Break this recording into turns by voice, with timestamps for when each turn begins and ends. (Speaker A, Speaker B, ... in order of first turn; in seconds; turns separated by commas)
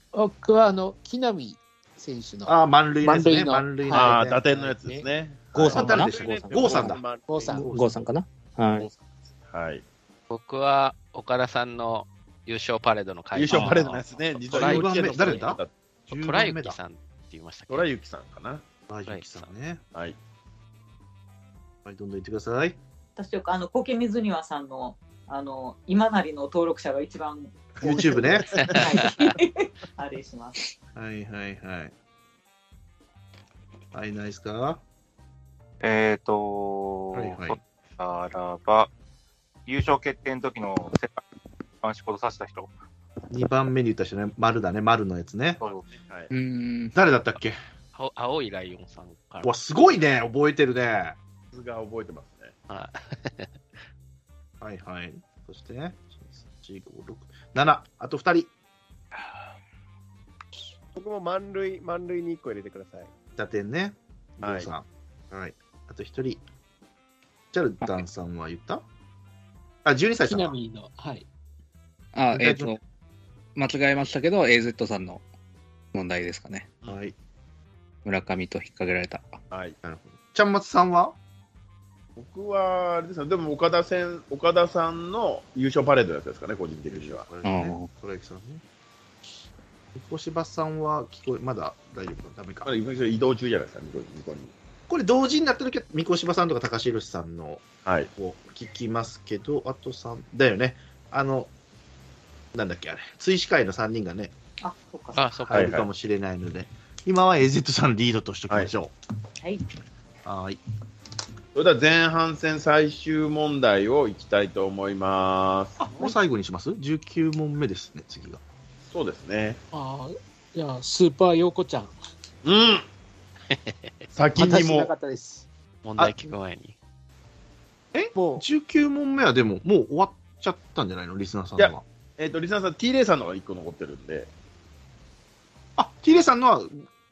Speaker A: 0.1-4.2, Speaker B: 2.5-4.5, Speaker C: 3.9-7.2, Speaker D: 5.5-7.0, Speaker B: 5.5-8.1, Speaker E: 7.0-7.4, Speaker A: 7.3-7.7, Speaker D: 7.6-8.9, Speaker C: 8.8-9.8, Speaker F: 10.3-15.6, Speaker C: 13.3-15.7, Speaker B: 14.5-16.8, Speaker F: 16.1-17.9, Speaker C: 17.7-18.6, Speaker B: 18.9-19.8, Speaker F: 19.1-19.5, Speaker B: 21.8-22.8, Speaker G: 23.1-30.7, Speaker B: 27.8-28.6, Speaker F: 28.6-29.1, Speaker B: 30.9-31.9, Speaker B: 33.9-34.8, Speaker H: 35.8-38.9, Speaker B: 37.1-37.6, Speaker H: 39.6-41.2, Speaker H: 41.8-42.7, Speaker B: 43.3-45.6, Speaker H: 45.6-45.9, Speaker C: 45.9-46.3, Speaker I: 46.3-47.0, Speaker B: 46.9-47.6, Speaker F: 47.9-49.6, Speaker B: 49.4-51.2, Speaker C: 51.5-52.5, Speaker F: 52.7-53.6, Speaker B: 54.6-58.5, Speaker E: 60.9-63.1, Speaker B: 63.4-66.4, Speaker C: 64.4-64.7, Speaker B: 67.5-68.8, Speaker B: 69.8-70.5, Speaker A: 70.2-71.2, Speaker I: 72.1-72.8, Speaker B: 72.3-72.7, Speaker I: 73.5-75.2, Speaker I: 75.9-76.7, Speaker B: 76.8-77.1, Speaker I: 78.0-79.3, Speaker B: 79.8-81.1, Speaker C: 82.2-87.3, Speaker B: 86.9-88.6, Speaker I: 87.4-87.9, Speaker B: 89.9-92.7, Speaker C: 92.6-94.5, Speaker B: 94.9-97.6, Speaker B: 98.2-101.5, Speaker B: 102.5-104.3, Speaker G: 104.6-105.3, Speaker F: 105.1-105.7, Speaker B: 105.4-108.9, Speaker C: 105.5-105.9, Speaker B: 110.2-110.6, Speaker C: 111.5-115.8, Speaker B: 115.8-118.4, Speaker C: 118.9-119.6, Speaker A: 119.7-121.9, Speaker C: 122.4-122.8, Speaker F: 123.5-124.1, Speaker C: 124.1-124.9, Speaker A: 124.3-125.5, Speaker F: 125.8-126.8, Speaker B: 126.0-126.3, Speaker B: 127.9-131.8, Speaker C: 131.6-134.3, Speaker B: 135.8-136.8